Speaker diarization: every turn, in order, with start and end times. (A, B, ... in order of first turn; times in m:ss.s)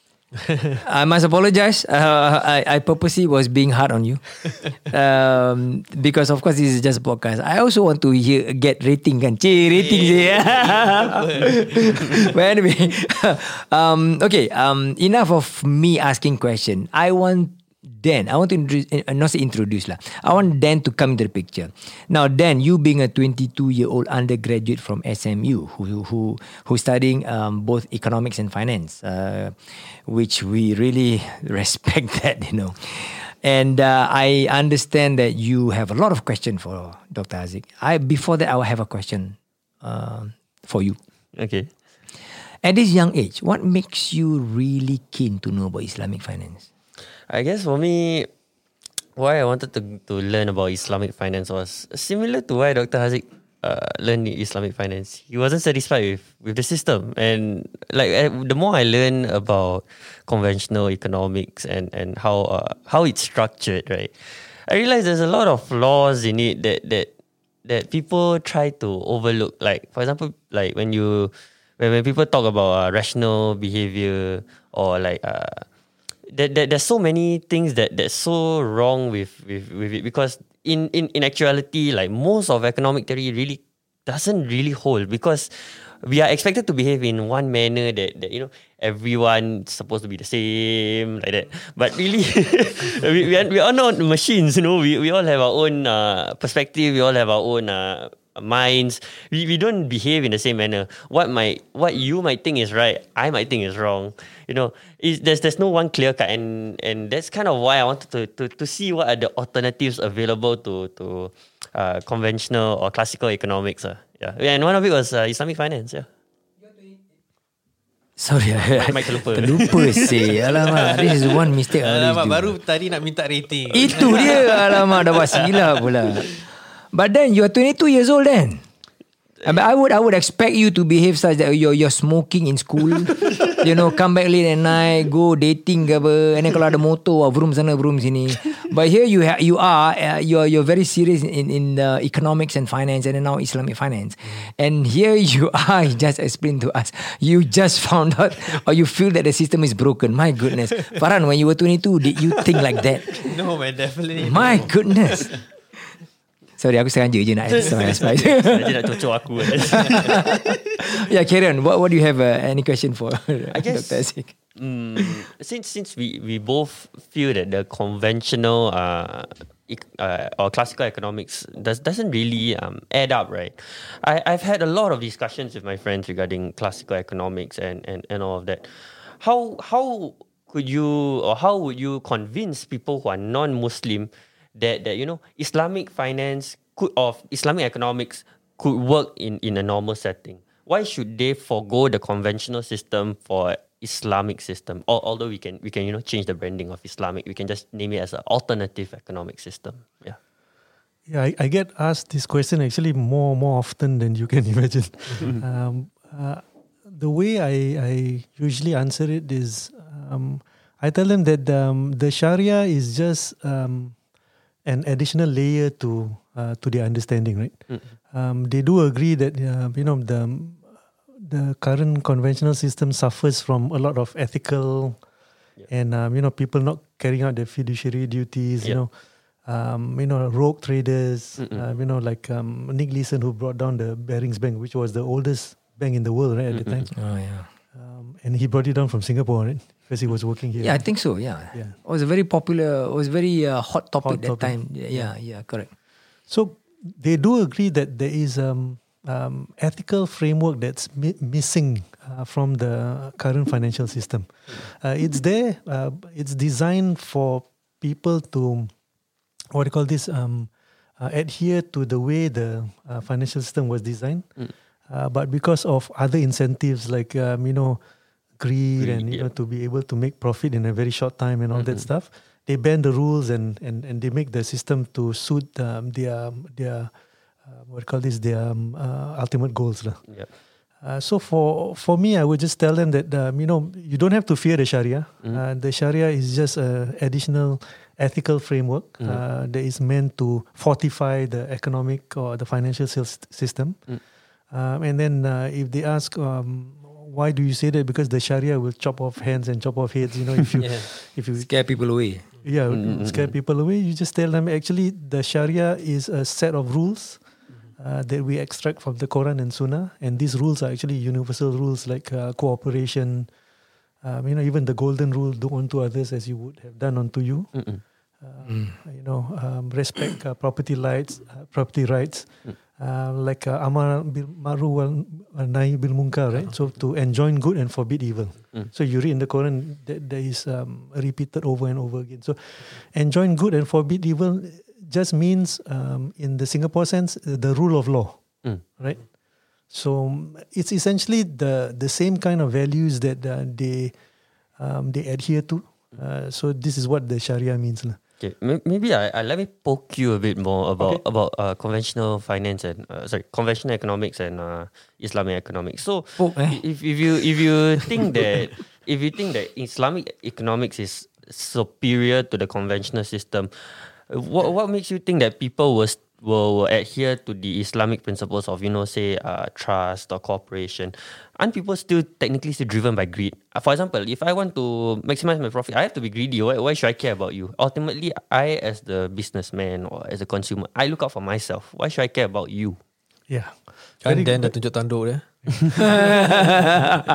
0:00.8-0:41.0 A
0:09.6-0:11.7 B
0:41.3-0:41.7 C
0:42.6-0:46.7 A
0:47.3-0:48.3 C
0:49.2-1:07.1 C
1:07.6-1:15.6 C
1:16.3-1:56.1 C
1:58.2-2:02.6 A
1:58.7-2:00.3 C
2:00.3-2:05.1 B
2:03.7-2:06.4 A
2:06.9-2:08.6 A
2:09.4-2:33.2 A
2:24.2-2:24.5 B
2:33.1-2:35.4 B
2:34.2-2:35.3 A
2:36.6-2:38.8 A
2:37.6-2:38.0 B
2:38.3-2:40.2 C
2:39.8-2:40.2 B
2:40.8-2:44.3 A
2:43.5-3:20.2 C
3:21.1-3:34.0 D
3:34.6-3:45.0 D
3:45.7-3:48.9 D
3:49.4-3:56.9 D
3:51.4-3:51.6 C
3:56.5-3:56.9 C
3:56.9-3:57.5 A
3:57.7-4:00.9 D
4:00.6-4:05.7 A
4:04.0-4:05.1 D
4:06.3-4:18.7 D
4:19.5-4:24.3 D
4:24.9-4:27.8 D
4:28.4-4:36.9 D
4:28.8-4:29.3 C
4:31.5-4:31.8 C
4:37.5-4:40.0 D
4:40.8-4:53.8 D
4:54.5-5:01.5 D
5:00.6-5:00.9 B
5:01.4-5:02.2 A
5:02.4-5:13.3 D
5:02.7-5:03.3 C
5:14.0-5:17.6 D
5:17.5-5:17.8 C
5:18.2-5:38.2 D
5:18.4-5:18.8 A
5:39.7-5:43.9 D
5:44.6-5:48.0 D
5:48.2-6:22.8 C
5:56.2-5:56.6 A
6:23.3-6:24.5 D
6:24.0-6:26.7 B
6:25.8-6:26.6 D